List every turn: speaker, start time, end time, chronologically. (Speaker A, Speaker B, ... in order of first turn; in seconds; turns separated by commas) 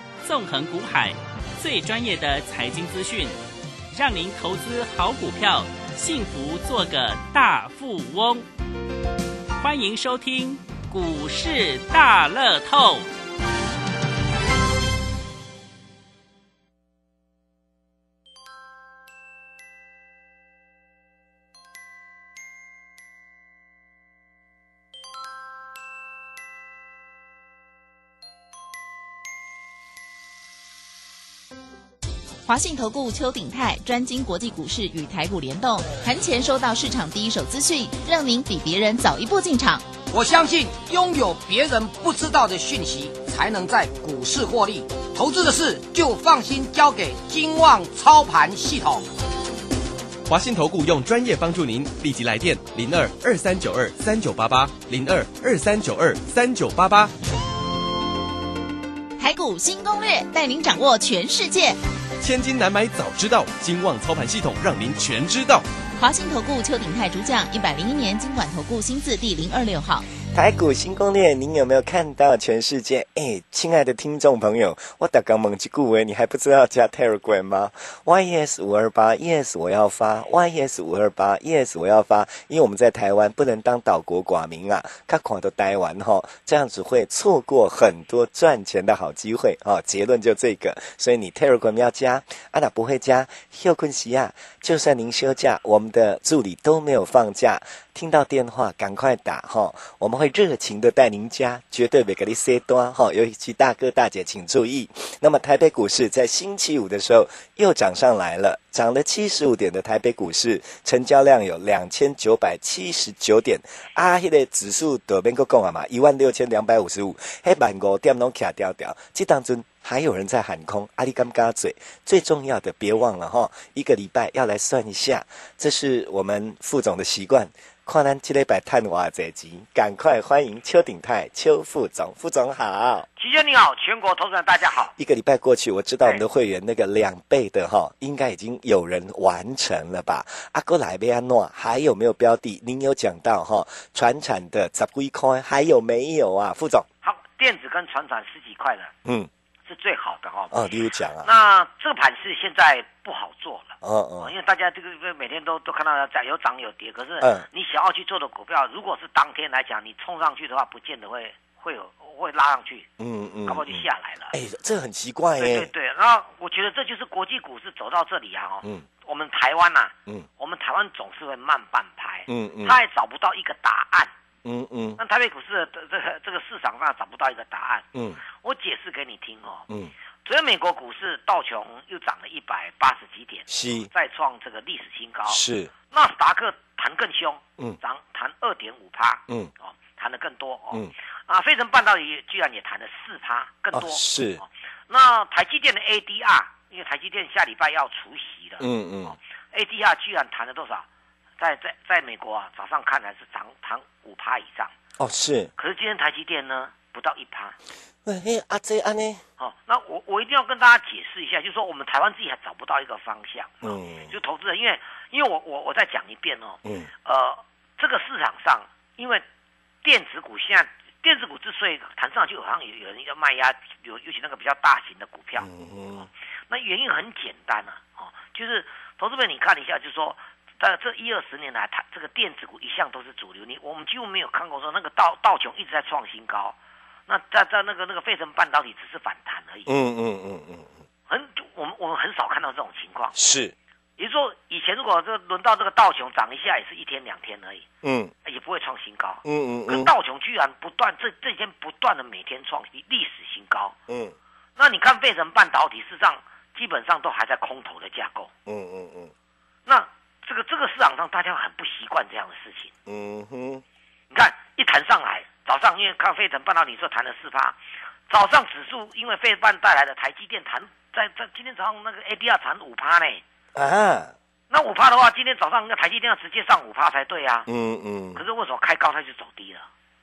Speaker A: 0.2-3.4, Speaker A: 3.9-8.5, Speaker A: 9.6-13.1, Speaker B: 32.5-39.9, Speaker C: 40.1-49.1, Speaker D: 50.3-57.1, Speaker B: 59.2-61.8, Speaker D: 62.2-65.7, Speaker B: 66.0-70.1, Speaker E: 70.3-133.1, Speaker F: 133.2-134.9, Speaker E: 135.0-146.9, Speaker F: 147.0-148.9, Speaker F: 149.7-150.5, Speaker E: 150.5-151.3, Speaker F: 151.2-162.9, Speaker E: 153.8-154.3, Speaker E: 157.2-157.5, Speaker E: 163.0-165.7, Speaker F: 163.5-164.3, Speaker F: 165.4-174.1, Speaker E: 172.3-172.8, Speaker E: 174.4-175.0, Speaker F: 175.0-179.7, Speaker E: 177.9-178.2, Speaker F: 180.2-200.9, Speaker E: 183.5-183.9, Speaker E: 185.3-185.7, Speaker E: 193.7-194.4, Speaker E: 198.6-199.2, Speaker F: 201.4-204.7, Speaker E: 205.0-205.5, Speaker F: 205.6-207.6, Speaker E: 208.1-209.2, Speaker F: 209.4-219.2, Speaker E: 213.6-214.1, Speaker E: 216.7-216.9, Speaker F: 219.8-225.5, Speaker E: 225.4-226.1, Speaker F: 226.5-236.6, Speaker F: 237.1-239.7, Speaker E: 239.7-240.7, Speaker F: 241.1-243.1, Speaker E: 243.1-243.5, Speaker F: 244.0-247.7, Speaker E: 247.8-248.1, Speaker F: 248.2-253.8, Speaker E: 249.2-249.9, Speaker E: 253.9-254.2, Speaker F: 254.6-258.3, Speaker E: 258.5-259.1, Speaker F: 259.7-262.7, Speaker E: 262.9-263.6, Speaker F: 264.1-273.2, Speaker E: 273.6-274.1, Speaker F: 274.5-277.5, Speaker E: 277.5-278.2, Speaker F: 278.1-279.7